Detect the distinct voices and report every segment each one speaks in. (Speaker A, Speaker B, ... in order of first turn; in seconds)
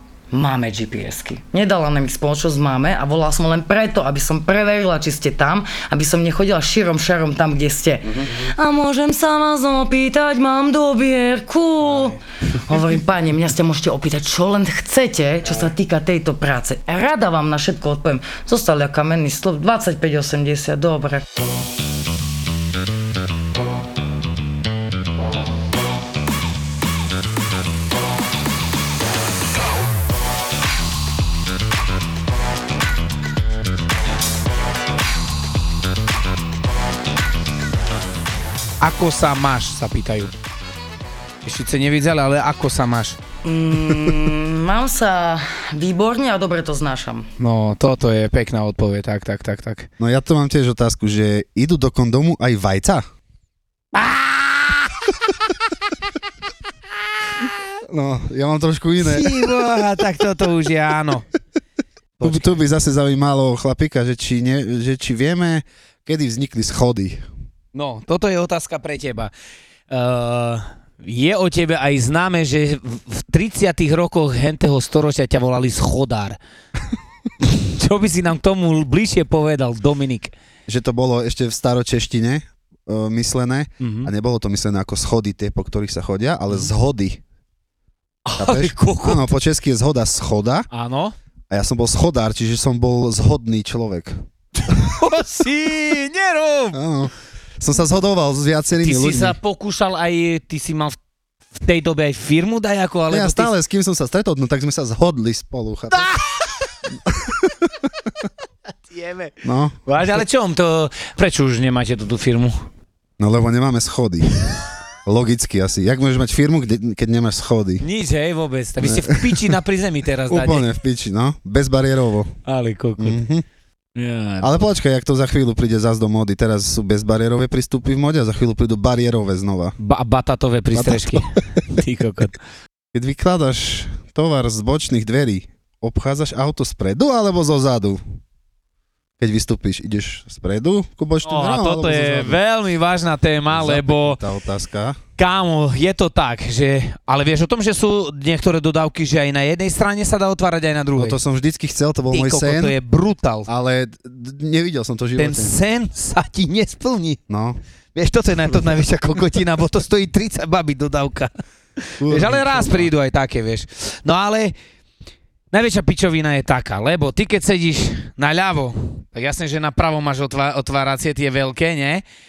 Speaker A: 0.3-21.2, 43.4-47.3
Speaker B: 11.8-12.1, 38.8-40.3, 41.4-43.2, 47.4-49.9, 53.9-54.9, 59.0-61.2, 62.2-62.6, 67.7-69.3, 69.9-76.4, 77.4-80.3, 83.8-84.1, 88.2-89.2, 90.7-91.1, 94.7-96.8, 98.8-101.0, 101.5-103.5, 105.9-106.2, 108.9-109.3, 109.8-112.6, 117.8-120.7, 122.5-123.2, 124.0-124.6, 129.8-132.4, 141.2-144.2, 145.2-151.2, 152.1-153.5, 155.2-157.2, 157.9-164.5, 165.5-172.0
Speaker C: 50.0-53.0, 57.9-59.3, 62.2-67.2, 80.7-87.2, 88.4-90.7, 91.5-94.2, 96.7-99.4, 103.1-106.1, 107.0-107.7, 109.4-109.8, 113.2-117.8, 118.8-119.6, 120.3-122.3, 123.0-123.4, 124.4-129.8, 130.7-131.4, 132.9-138.0, 139.2-142.4, 143.5-145.0, 151.0-152.7, 153.5-155.5, 157.3-157.6, 162.0-162.9